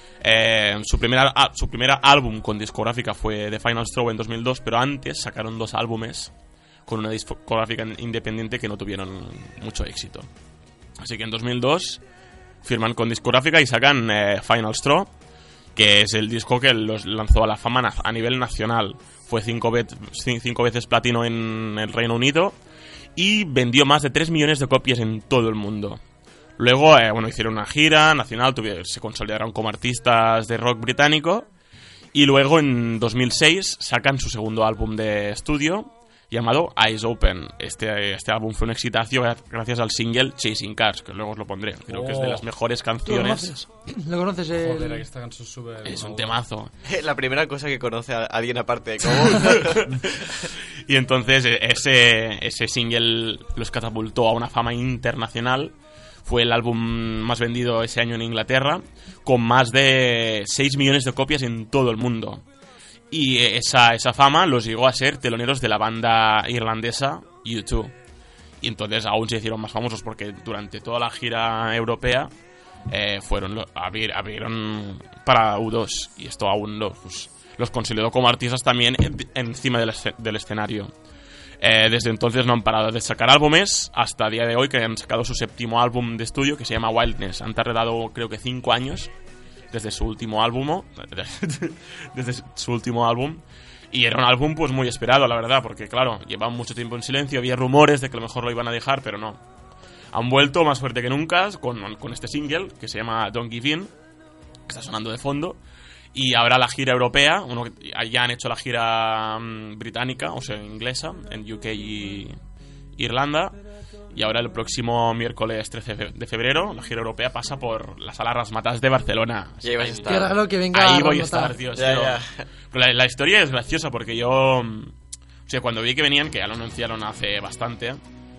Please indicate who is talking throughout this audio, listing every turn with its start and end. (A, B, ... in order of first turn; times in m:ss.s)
0:00.2-0:06.3 A
0:06.8-0:10.3 A
0:11.0-0:12.0 A
0:12.6-0:15.1 A
0:15.7-0:22.6 A
0:23.2-0:26.0 A
0:26.6-0:31.5 A
0:32.1-0:43.6 A
0:41.9-0:42.5 B
0:43.0-0:45.0 C
0:44.5-0:46.4 B
0:45.8-0:46.7 A
0:46.8-0:50.0 D
0:49.4-0:49.9 A
0:50.8-1:02.4 A
1:03.1-1:07.9 A
1:08.6-1:12.3 A
1:12.9-1:20.9 A
1:21.6-1:29.1 A
1:29.7-1:39.4 A
1:40.1-1:43.9 A
1:44.7-1:45.6 A
1:46.1-1:52.3 A
1:53.0-1:53.6 A
1:54.1-2:04.9 A
1:59.6-2:00.3 D
2:00.1-2:01.6 C
2:01.7-2:02.4 D
2:05.5-2:08.0 A